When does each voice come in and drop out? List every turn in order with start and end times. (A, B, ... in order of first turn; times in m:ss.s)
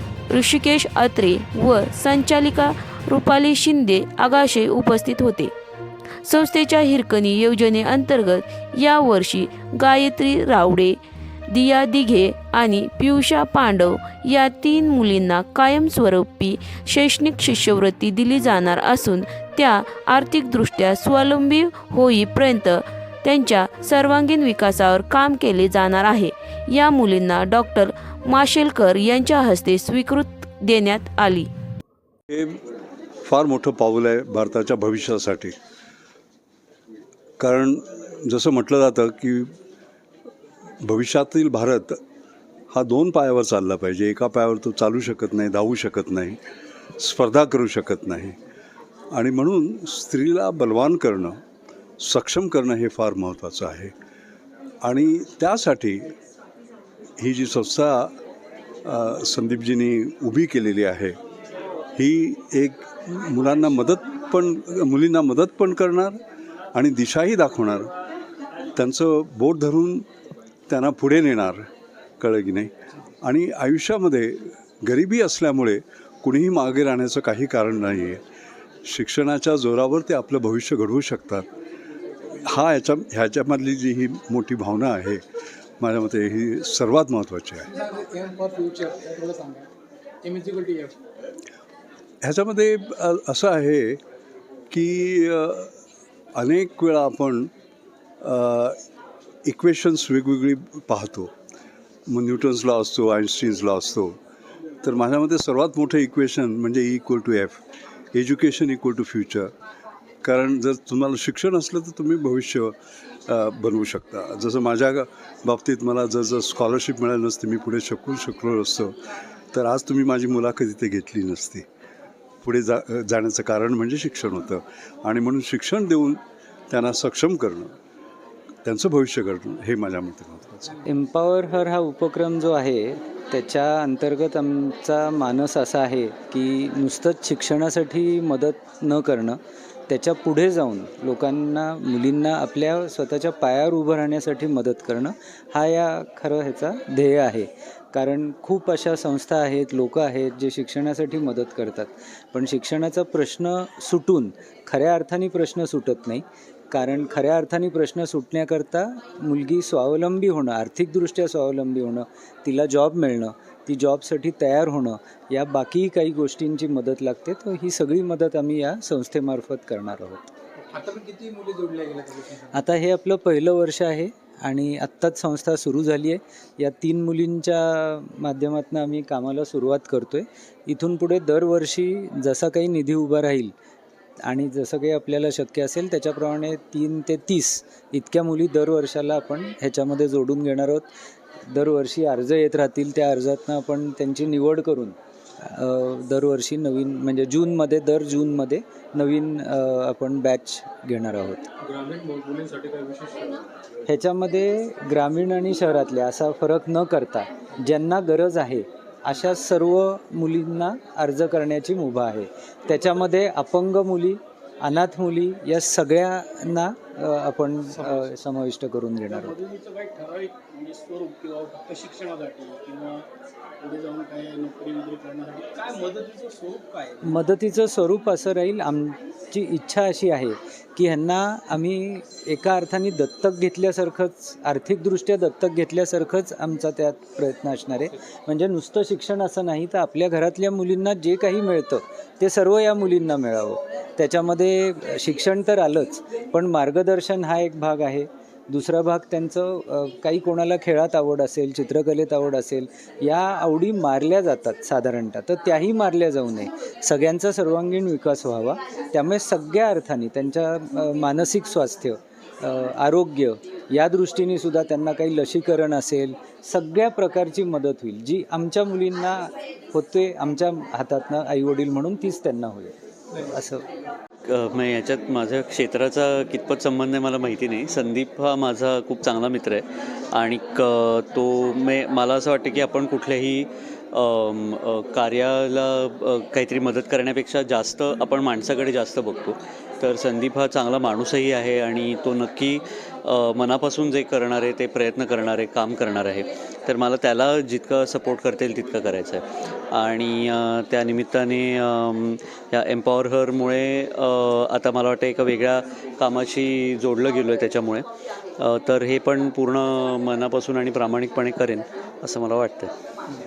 0:00.3-0:05.5 A
0:06.2-0:11.0 A
0:11.5-0:31.5 A
0:32.3-0:32.6 B
0:33.2-0:35.6 B
0:37.4-0:39.5 B
0:40.8-0:42.0 B
0:42.7-0:46.4 B
0:47.0-0:48.4 B
0:49.1-0:51.4 B
0:52.0-0:53.9 B
0:54.8-0:56.1 B
0:57.2-0:58.1 B
0:58.8-1:01.2 B
1:02.0-1:06.2 B
1:06.7-1:07.9 B
1:08.8-1:10.1 B
1:10.7-1:11.7 B
1:12.2-1:12.7 B
1:13.2-1:18.2 B
1:18.8-1:21.5 B
1:22.4-1:25.2 B
1:25.8-1:27.7 B
1:27.7-1:29.7 C
1:30.2-1:30.9 C
1:32.2-1:34.0 B
1:34.7-1:35.7 B
1:36.4-1:37.5 B
1:38.2-1:38.8 B
1:39.4-1:41.3 B
1:42.1-1:44.2 B
1:44.8-1:47.6 B
1:48.1-1:49.5 B
1:50.2-1:52.7 B
1:53.3-1:59.0 B
1:59.5-2:01.6 B
2:02.4-2:07.7 B
2:08.6-2:10.8 B
2:10.8-2:19.4 D
2:19.9-2:50.3 D
2:50.6-2:52.5 C
2:52.5-3:03.5 D
3:04.2-3:10.9 D
3:11.5-3:21.5 D
3:21.6-3:23.4 C
3:23.9-3:39.4 D
3:39.1-3:43.1 C
3:43.6-3:47.2 C
3:47.0-4:33.6 D
4:34.3-5:07.8 E
5:08.4-5:12.7 E